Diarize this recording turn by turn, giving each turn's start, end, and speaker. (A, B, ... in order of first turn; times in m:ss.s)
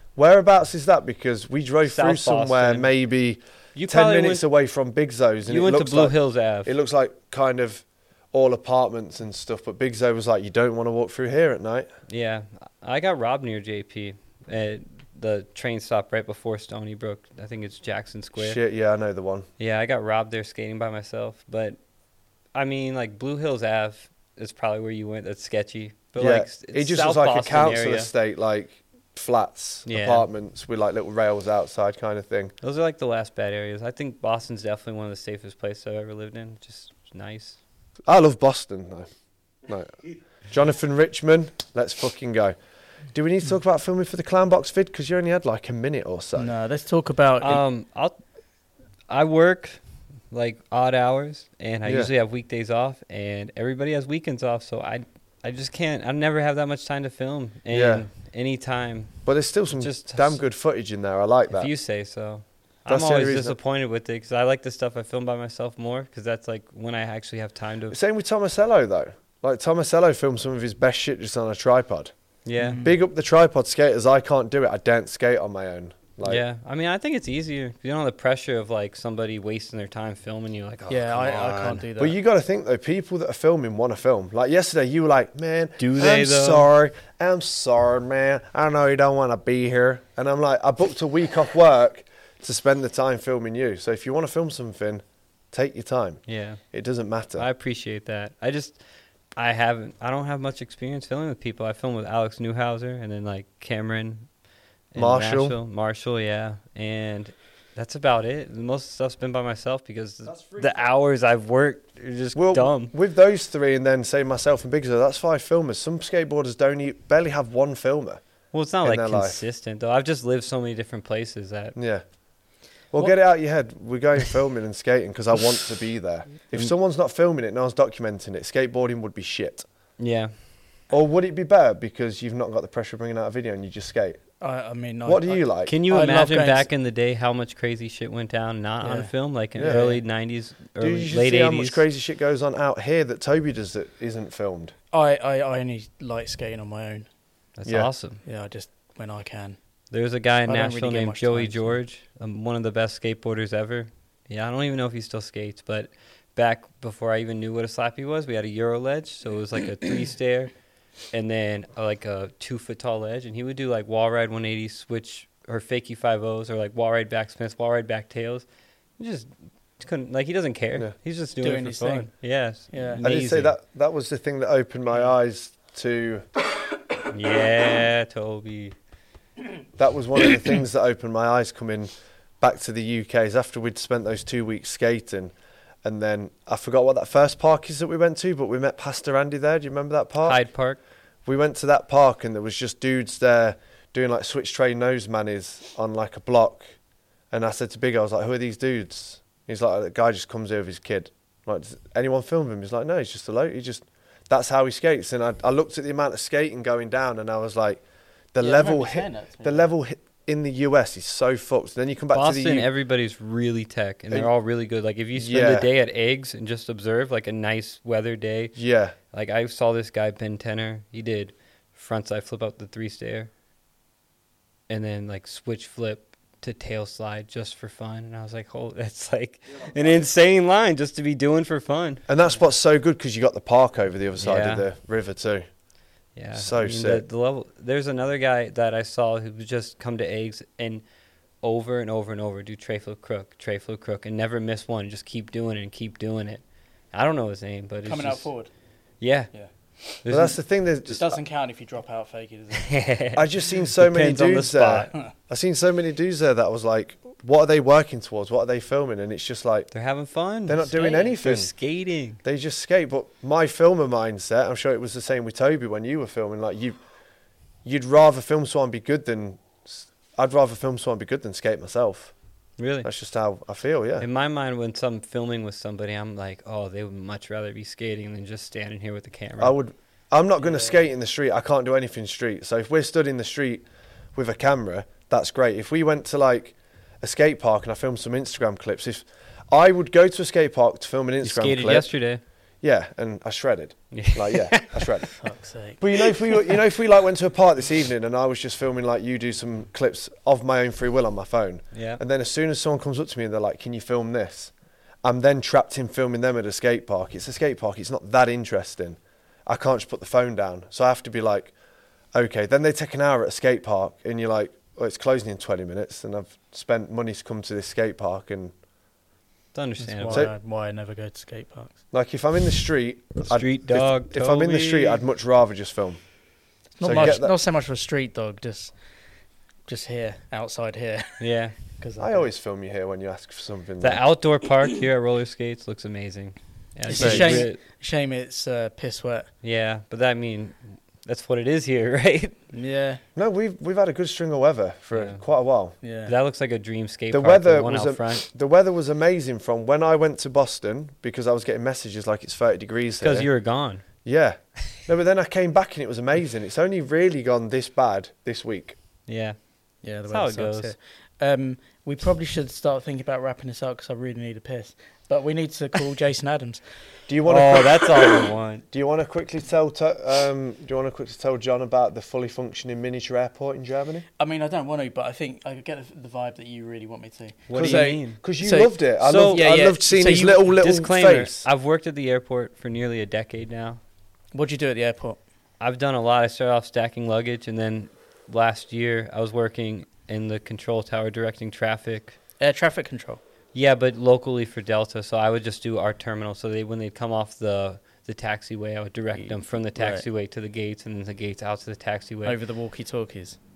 0:00.2-0:11.9 A
0:01.8-0:02.9 B
0:03.7-0:04.4 B
0:05.4-0:06.7 B
0:12.1-0:18.6 B
0:18.4-0:19.5 A
0:19.6-0:21.8 B
0:22.5-0:28.1 B
0:26.2-0:32.5 A
0:29.9-0:30.2 B
0:32.6-0:37.6 B
0:38.1-0:39.1 A
0:39.7-0:40.0 A
0:40.5-0:42.6 A
0:43.1-0:46.5 A
0:46.4-0:47.6 C
0:47.4-0:48.2 B
0:49.1-0:59.2 B
0:51.8-0:52.1 A
0:57.7-0:58.0 A
0:59.2-1:01.7 A
0:59.7-1:00.4 B
1:01.5-1:08.0 B
1:02.9-1:03.6 A
1:07.9-1:12.1 A
1:12.4-1:12.8 B
1:12.6-1:12.9 C
1:12.8-1:16.4 A
1:16.2-1:21.8 B
1:20.9-1:22.2 C
1:22.0-1:36.2 A
1:25.8-1:26.7 B
1:36.3-1:36.6 B
1:36.7-1:37.4 A
1:37.4-1:38.8 B
1:39.4-1:44.3 B
1:44.9-1:52.9 B
1:44.9-1:45.6 A
1:52.3-1:58.2 A
1:58.5-2:01.8 B
1:58.8-1:59.4 A
2:01.7-2:02.0 A
2:02.9-2:09.6 A
2:10.0-2:10.3 B
2:10.9-2:14.2 A
2:14.4-2:16.7 C
2:15.0-2:15.8 A
2:15.6-2:21.8 B
2:18.8-2:20.0 C
2:19.6-2:20.0 A
2:20.8-2:24.7 A
2:24.9-2:27.1 C
2:27.6-2:28.2 B
2:28.2-2:29.6 C
2:29.9-2:40.5 B
2:30.5-2:31.8 C
2:41.1-2:48.4 B
2:49.0-2:53.5 B
2:51.4-2:52.1 C
2:52.7-2:53.0 C
2:53.0-2:56.2 A
2:57.1-2:58.7 B
2:59.8-3:01.9 A
3:02.4-3:05.3 A
3:05.8-3:10.4 A
3:10.2-3:10.8 B
3:11.2-3:16.7 A
3:17.3-3:27.8 A
3:28.3-3:32.7 A
3:28.4-3:29.7 C
3:32.1-3:38.6 B
3:35.1-3:35.7 A
3:38.6-3:39.0 A
3:39.1-3:43.3 B
3:44.7-3:52.0 B
3:52.1-3:55.4 A
3:54.2-3:54.7 B
3:56.2-4:00.8 B
3:56.3-3:57.0 A
4:01.4-4:06.4 B
4:06.9-4:08.3 B
4:07.8-4:08.5 C
4:09.0-4:09.3 B
4:09.3-4:10.0 C
4:10.0-4:10.4 B
4:10.1-4:11.2 A
4:10.9-4:12.7 C
4:12.6-4:14.9 B
4:13.1-4:19.7 A
4:19.7-4:22.2 B
4:20.5-4:21.5 A
4:20.6-4:21.1 C
4:22.2-4:26.8 A
4:27.6-4:32.1 A
4:32.6-4:32.9 B
4:32.8-4:34.1 A
4:34.0-4:39.5 B
4:39.4-4:43.6 A
4:40.4-4:40.7 C
4:44.1-4:51.9 A
4:51.2-4:52.2 B
4:52.6-4:55.1 A
4:53.9-4:55.0 B
4:55.1-4:55.8 C
4:55.8-5:04.5 A
5:01.7-5:02.0 B
5:05.0-5:11.5 A
5:12.1-5:18.5 A
5:19.5-5:20.3 B
5:19.8-5:21.7 C
5:21.9-5:26.0 A
5:23.2-5:25.0 B
5:26.7-5:28.7 C
5:26.8-5:27.3 A
5:29.7-5:31.2 C
5:31.2-5:31.6 B
5:31.7-5:32.3 C
5:32.0-5:34.0 A
5:33.8-5:37.6 B
5:36.9-5:39.3 C
5:37.0-5:37.4 A
5:39.4-5:42.4 B
5:42.5-5:43.0 C
5:43.2-5:45.8 A
5:44.9-5:45.2 B
5:45.8-5:46.1 C
5:46.0-5:48.2 B
5:47.1-5:53.3 A
5:53.0-5:53.8 B
5:54.0-5:58.8 A
5:59.1-5:59.5 B
5:59.8-6:06.6 C
6:00.0-6:00.7 B
6:07.1-6:14.0 A
6:07.2-6:08.6 B
6:14.2-6:20.5 C
6:17.5-6:18.2 B
6:17.5-6:21.4 A
6:19.0-6:19.5 B
6:20.6-6:23.8 B
6:24.3-6:25.2 C
6:25.6-6:32.2 B
6:32.4-6:33.2 C
6:33.5-6:42.4 B
6:39.8-6:40.0 C
6:42.2-6:43.4 C